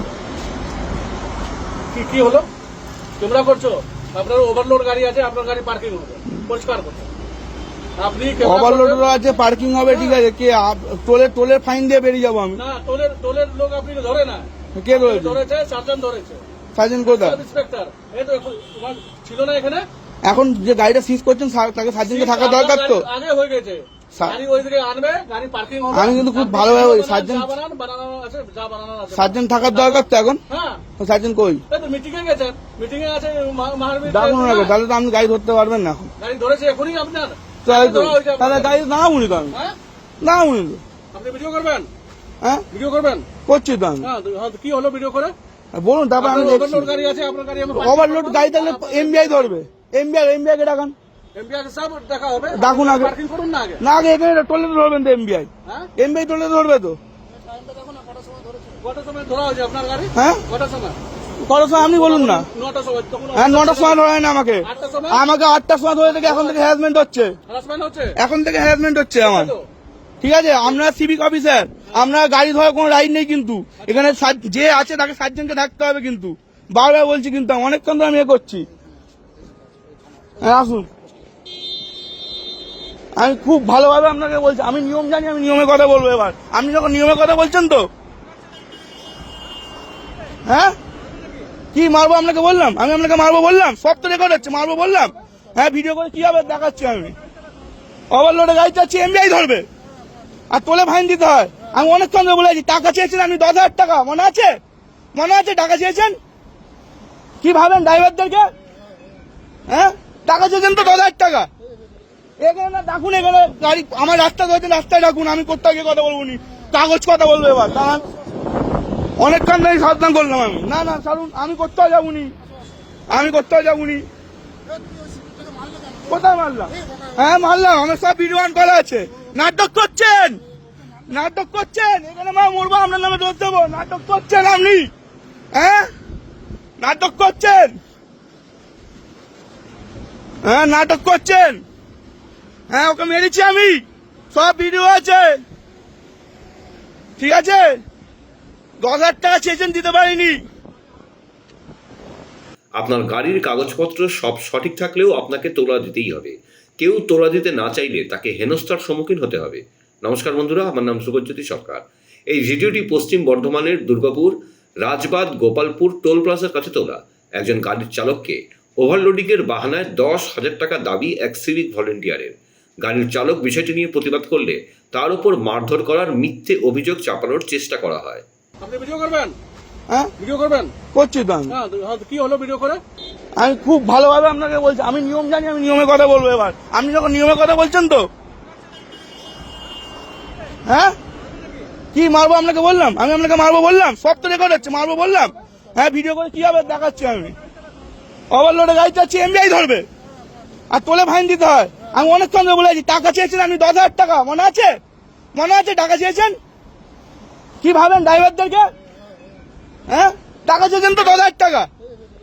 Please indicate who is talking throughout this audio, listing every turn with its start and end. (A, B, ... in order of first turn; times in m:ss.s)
0:01.9-0:02.5 A
0:03.2-0:07.1 A
0:08.0-0:09.1 A
0:08.4-0:12.6 B
0:09.8-0:10.2 A
0:12.6-0:16.4 A
0:14.8-0:15.4 B
0:16.8-0:17.4 B
0:17.0-0:19.9 A
0:20.2-0:23.0 B
0:22.0-0:30.8 A
0:25.9-0:27.5 B
0:29.1-0:30.4 B
0:31.0-0:31.6 B
0:31.7-0:34.7 A
0:34.0-0:36.1 B
0:36.2-0:38.8 A
0:37.6-0:39.5 B
0:40.2-0:40.8 B
0:41.1-0:41.9 A
0:42.7-0:43.3 A
0:43.4-0:44.0 B
0:44.0-0:45.3 A
0:45.7-0:46.9 B
0:46.2-0:49.6 A
0:47.7-0:51.0 B
0:51.3-0:53.8 A
0:52.5-0:53.1 B
0:53.8-0:57.0 B
0:58.8-1:01.0 A
1:00.2-1:00.4 B
1:01.4-1:02.5 B
1:01.8-1:04.0 A
1:03.3-1:07.3 B
1:04.6-1:05.2 A
1:06.1-1:06.7 A
1:07.5-1:08.2 A
1:08.2-1:09.5 B
1:09.2-1:09.7 A
1:10.2-1:18.7 B
1:13.8-1:14.1 A
1:20.4-1:20.9 B
1:23.2-1:27.9 B
1:30.4-1:30.8 B
1:31.7-1:37.2 B
1:38.1-1:39.7 B
1:40.5-1:44.6 B
1:45.1-1:46.2 B
1:47.4-1:48.5 B
1:49.7-1:51.5 B
1:52.4-1:58.0 B
1:59.2-2:02.3 B
2:03.1-2:04.0 B
2:06.1-2:10.4 B
2:11.1-2:14.9 B
2:15.5-2:15.9 B
2:16.8-2:17.8 B
2:20.4-2:21.6 B
2:22.7-2:23.8 B
2:24.3-2:25.4 B
2:27.2-2:27.8 B
2:28.8-2:30.4 B
2:32.8-2:58.2 C
2:58.6-2:59.3 A
3:00.2-3:00.7 A
3:00.9-3:01.6 B
3:01.5-3:02.8 A
3:03.4-3:08.1 B
3:10.7-3:11.0 B
3:11.9-3:17.4 B
3:18.3-3:19.9 B
3:20.7-3:24.8 B
3:25.3-3:26.3 B
3:27.6-3:28.7 B
3:29.9-3:31.7 B